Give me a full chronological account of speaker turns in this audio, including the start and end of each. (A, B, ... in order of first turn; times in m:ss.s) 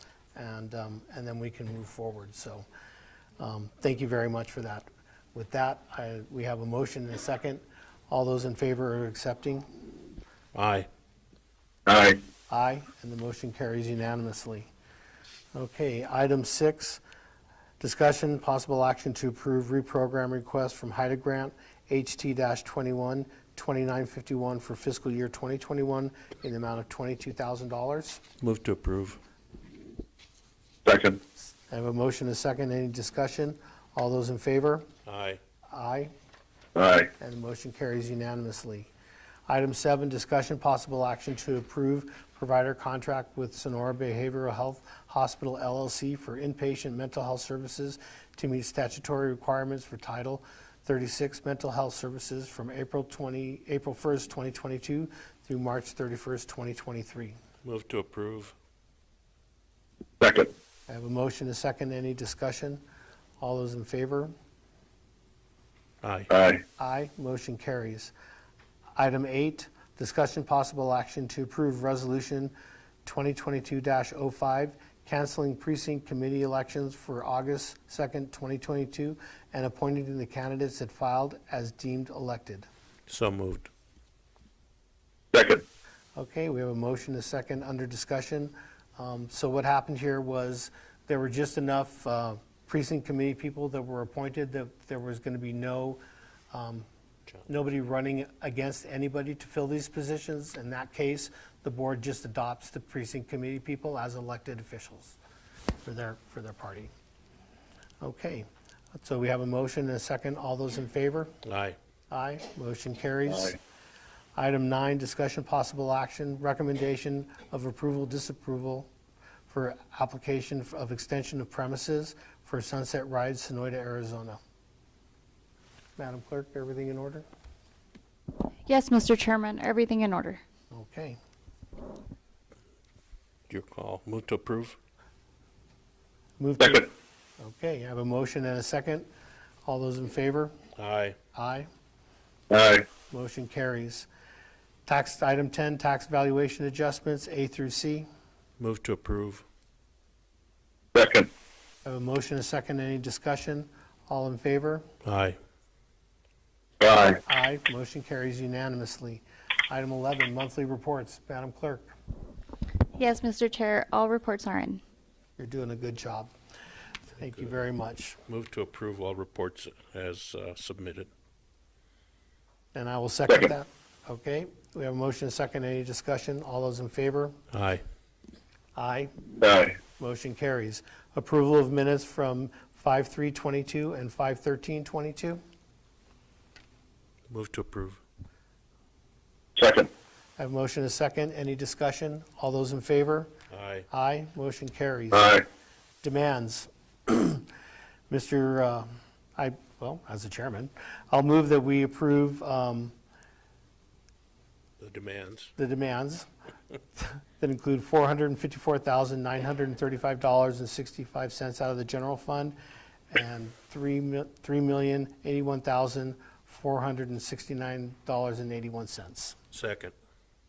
0:00.4-0:02.7 A
0:03.4-0:09.7 A
0:10.5-0:10.9 B
0:11.9-0:12.2 C
0:12.5-0:14.7 A
0:15.5-0:17.0 A
0:17.8-0:28.2 A
0:28.4-0:29.2 B
0:30.8-0:31.2 C
0:31.5-0:34.9 A
0:35.1-0:35.4 B
0:35.7-0:36.1 A
0:36.8-0:37.1 C
0:37.2-0:38.9 A
0:39.5-0:57.4 A
0:57.6-0:58.5 B
1:00.2-1:00.5 C
1:00.9-1:02.8 A
1:03.4-1:04.3 A
1:06.0-1:06.3 B
1:06.3-1:06.6 C
1:06.8-1:08.1 A
1:09.0-1:12.5 A
1:13.0-1:22.7 A
1:23.1-1:23.7 B
1:25.3-1:25.6 C
1:26.2-1:36.0 A
1:36.5-1:36.9 A
1:37.5-1:45.2 A
1:45.8-1:46.9 A
1:48.0-1:51.3 A
1:51.4-1:51.8 B
1:52.1-1:53.6 A
1:54.4-1:58.9 A
1:59.5-2:04.4 A
2:06.0-2:07.3 A
2:08.7-2:10.4 D
2:10.7-2:11.2 A
2:13.5-2:14.8 B
2:16.4-2:19.1 A
2:19.6-2:20.5 A
2:20.8-2:21.2 B
2:21.3-2:21.7 A
2:22.5-2:22.8 C
2:23.1-2:24.1 A
2:24.9-2:28.1 A
2:28.6-2:29.4 B
2:31.0-2:31.3 C
2:31.8-2:34.9 A
2:35.0-2:35.4 B
2:36.8-2:37.2 C
2:37.2-2:41.9 A
2:43.0-2:44.8 D
2:45.4-2:46.3 A
2:47.2-2:48.2 A
2:48.3-2:51.1 B
2:52.7-2:57.4 A
2:57.5-2:57.8 B
2:58.8-2:59.1 A
2:59.4-2:59.7 C
2:59.8-3:05.4 A
3:07.3-3:08.0 B
3:09.6-3:09.9 C
3:10.4-3:13.3 A
3:13.5-3:13.9 B
3:13.9-3:15.4 A
3:15.1-3:15.4 C
3:16.0-3:17.5 A
3:18.1-3:23.0 A
3:24.8-3:25.5 B
3:25.6-3:26.3 A
3:27.0-3:32.6 A
3:33.1-3:39.4 A
3:39.5-3:39.9 B